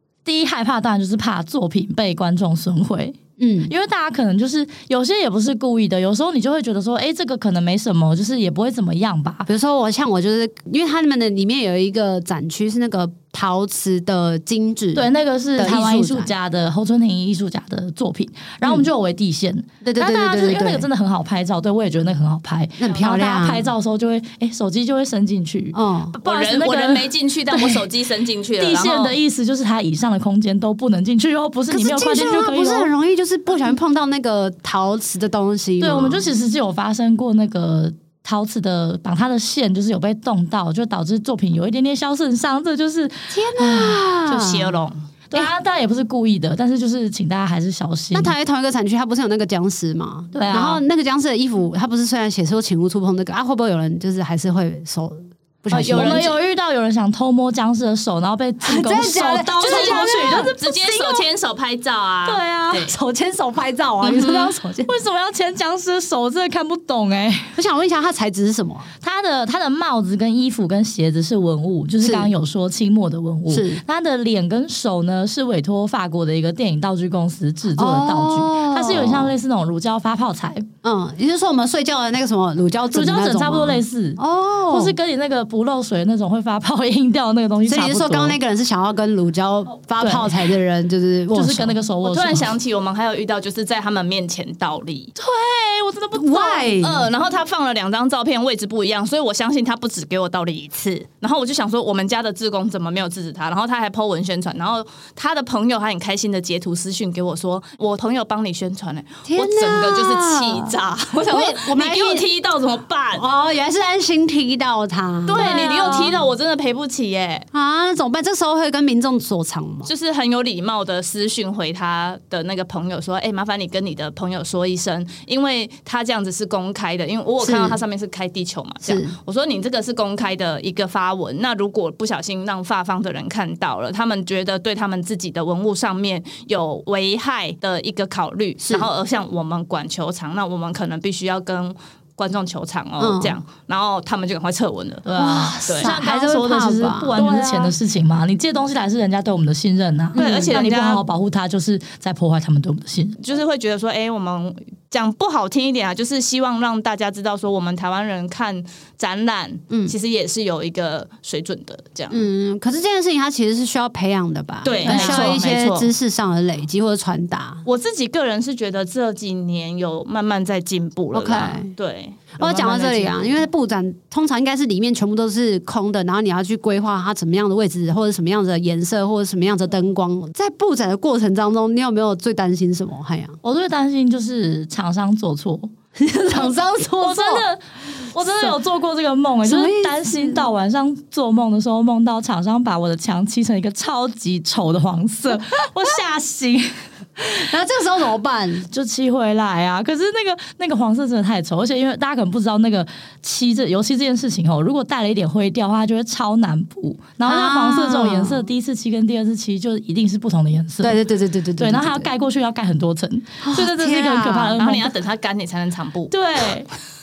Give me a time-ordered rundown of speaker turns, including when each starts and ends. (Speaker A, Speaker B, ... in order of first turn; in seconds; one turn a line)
Speaker A: 0.2-9.5
Speaker B: 3.4-3.7
Speaker B: 9.5-16.3
Speaker A: 14.9-27.9
Speaker B: 19.8-20.9
Speaker B: 22.8-23.7
Speaker B: 25.7-26.2
Speaker C: 26.2-29.2
Speaker A: 28.6-32.9
Speaker B: 31.7-36.3
Speaker A: 35.8-44.0
Speaker B: 43.3-44.8
Speaker C: 44.2-45.0
Speaker A: 45.3-48.3
Speaker B: 48.1-56.3
Speaker A: 50.3-50.8
Speaker C: 55.7-56.3
Speaker A: 55.7-61.2
Speaker B: 58.6-60.5
Speaker C: 59.6-62.9
Speaker A: 62.2-62.9
Speaker B: 62.9-64.9
Speaker C: 64.0-64.5
Speaker A: 64.8-67.6
Speaker B: 67.6-68.9
Speaker A: 69.0-80.7
Speaker B: 72.0-72.3
Speaker B: 73.5-73.8
Speaker B: 77.7-79.3
Speaker B: 80.8-85.0
Speaker A: 82.9-88.4
Speaker B: 87.7-91.8
Speaker A: 90.0-90.4
Speaker A: 91.3-92.5
Speaker C: 92.0-95.1
Speaker A: 95.2-96.7
Speaker B: 96.2-97.1
Speaker C: 96.8-113.2
Speaker B: 109.2-112.3
Speaker B: 113.1-116.2
Speaker C: 115.3-117.5
Speaker A: 115.4-116.1
Speaker B: 117.5-119.9
Speaker C: 119.9-145.1
Speaker B: 127.4-127.8
Speaker B: 128.8-129.1
Speaker B: 138.6-138.9
Speaker B: 143.0-143.4
Speaker A: 145.1-153.2
Speaker B: 145.2-147.8
Speaker C: 145.7-145.9
Speaker B: 150.2-150.6
Speaker C: 150.2-151.0
Speaker C: 153.2-162.2
Speaker B: 159.7-159.9
Speaker B: 162.1-167.7
Speaker C: 164.6-165.9
Speaker A: 164.8-165.4
Speaker C: 167.7-173.4
Speaker B: 171.1-171.7
Speaker B: 172.4-183.4
Speaker A: 183.4-185.7
Speaker B: 185.9-187.4
Speaker A: 186.3-196.8
Speaker B: 188.2-188.6
Speaker B: 189.4-190.5
Speaker B: 197.2-198.7
Speaker A: 198.7-211.0
Speaker B: 207.2-208.5
Speaker B: 210.8-212.1
Speaker A: 211.6-214.9
Speaker B: 213.4-214.6
Speaker C: 214.6-216.1
Speaker A: 216.1-216.7